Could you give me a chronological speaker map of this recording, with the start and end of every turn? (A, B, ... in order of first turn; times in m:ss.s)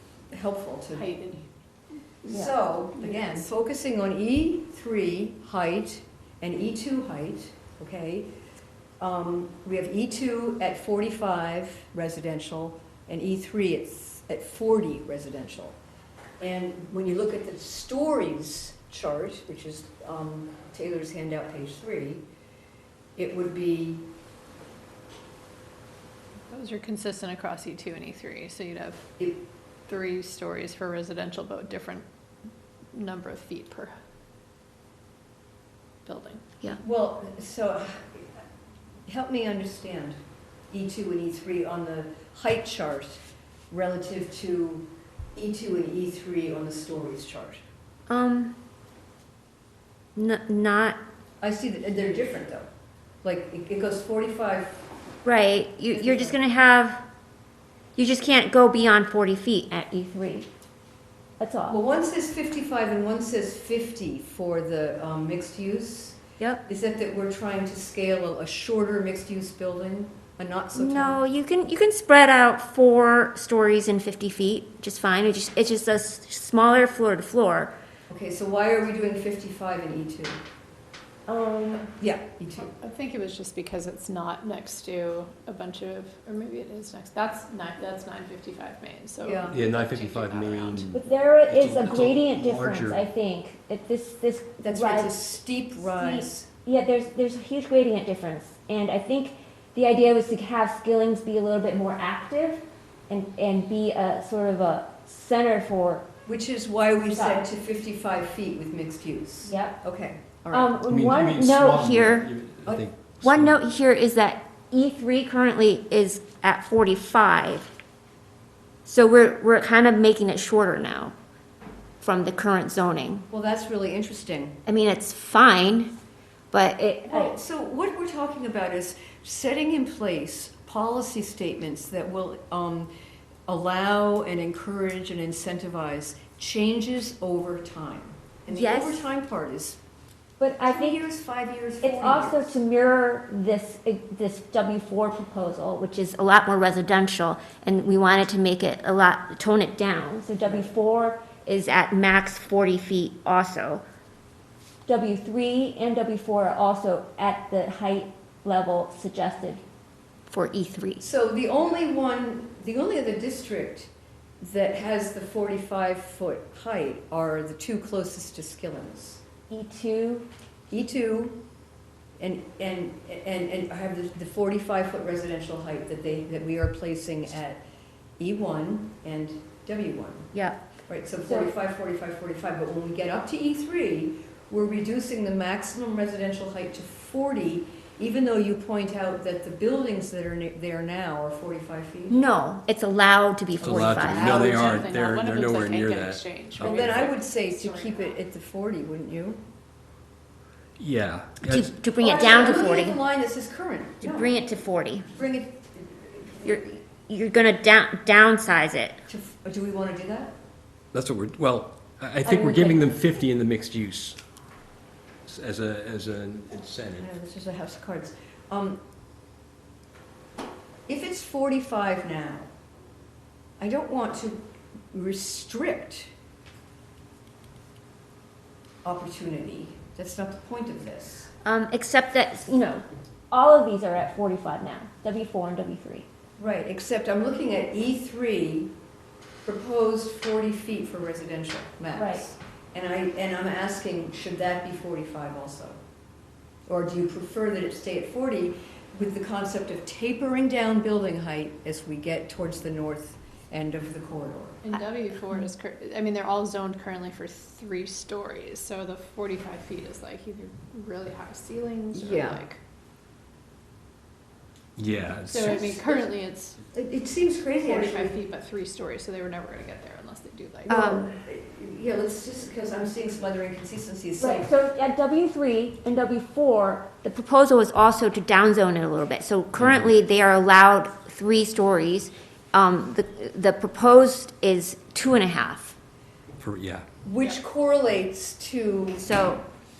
0:00.3-0:01.1 A
0:00.9-0:01.5 B
0:02.2-0:03.1 C
0:02.3-0:08.3 A
0:09.0-0:15.8 A
0:16.4-0:22.2 A
0:23.2-0:24.0 A
0:26.5-0:29.1 B
0:29.9-0:32.0 B
0:32.9-0:33.9 B
0:36.0-0:36.4 B
0:36.8-0:38.3 A
0:39.1-0:40.2 A
0:40.7-0:47.6 A
0:48.1-0:48.6 C
0:50.1-0:51.0 C
0:51.4-0:52.7 A
0:53.2-0:54.8 A
0:55.2-0:57.0 C
0:55.9-0:56.4 A
0:58.0-1:00.5 C
1:01.4-1:01.8 C
1:01.7-1:11.2 A
1:10.8-1:17.7 C
1:18.1-1:20.4 A
1:21.3-1:21.9 C
1:22.0-1:22.8 A
1:22.6-1:30.9 B
1:29.2-1:29.6 A
1:29.5-1:33.0 D
1:30.9-1:35.2 C
1:34.6-1:36.5 A
1:35.8-1:46.1 C
1:46.2-1:50.8 A
1:47.1-1:47.4 C
1:49.4-1:49.8 C
1:50.5-1:52.2 C
1:50.8-1:53.6 D
1:52.6-1:52.9 A
1:53.2-1:57.7 C
1:58.8-2:01.1 C
2:02.0-2:03.3 C
2:03.3-2:04.6 A
2:04.6-2:05.9 C
2:06.5-2:07.3 C
2:07.1-2:12.9 A
2:13.5-2:19.8 A
2:18.5-2:19.1 C
2:20.4-2:21.0 C
2:20.6-2:22.6 A
2:21.8-2:33.8 C
2:30.4-2:30.7 A
2:34.9-2:39.6 C
2:40.3-2:41.0 C
2:41.0-2:43.9 A
2:44.4-2:49.2 A
2:49.5-2:50.3 C
2:50.7-2:51.4 A
2:52.2-2:57.6 A
2:58.2-3:00.3 A
3:00.9-3:12.2 A
3:01.2-3:01.5 C
3:12.1-3:14.2 C
3:13.6-3:17.1 D
3:13.6-3:14.9 A
3:14.2-3:18.2 B
3:16.6-3:19.4 A
3:20.8-3:21.8 D
3:21.5-3:23.0 C
3:22.0-3:24.3 A
3:24.0-3:25.1 C
3:25.1-3:26.5 A
3:26.4-3:29.0 C
3:29.1-3:30.3 A
3:30.9-3:34.2 D
3:35.3-3:37.2 D
3:37.0-3:38.8 A
3:40.9-3:42.5 A
3:43.6-3:46.1 A
3:48.8-3:51.3 A
3:51.4-3:56.0 C
3:56.4-3:58.7 A
3:59.4-4:05.8 A
4:01.9-4:02.2 C
4:06.7-4:14.6 A
4:14.6-4:22.6 B
4:21.9-4:22.4 A
4:24.8-4:26.0 D
4:25.2-4:26.6 B
4:26.7-4:28.2 A
4:27.6-4:30.9 B
4:30.7-4:34.5 A
4:30.7-4:31.1 C
4:34.2-4:45.8 C
4:39.6-4:39.9 D
4:46.4-4:46.8 D
4:47.0-4:49.0 A
4:49.0-4:49.4 C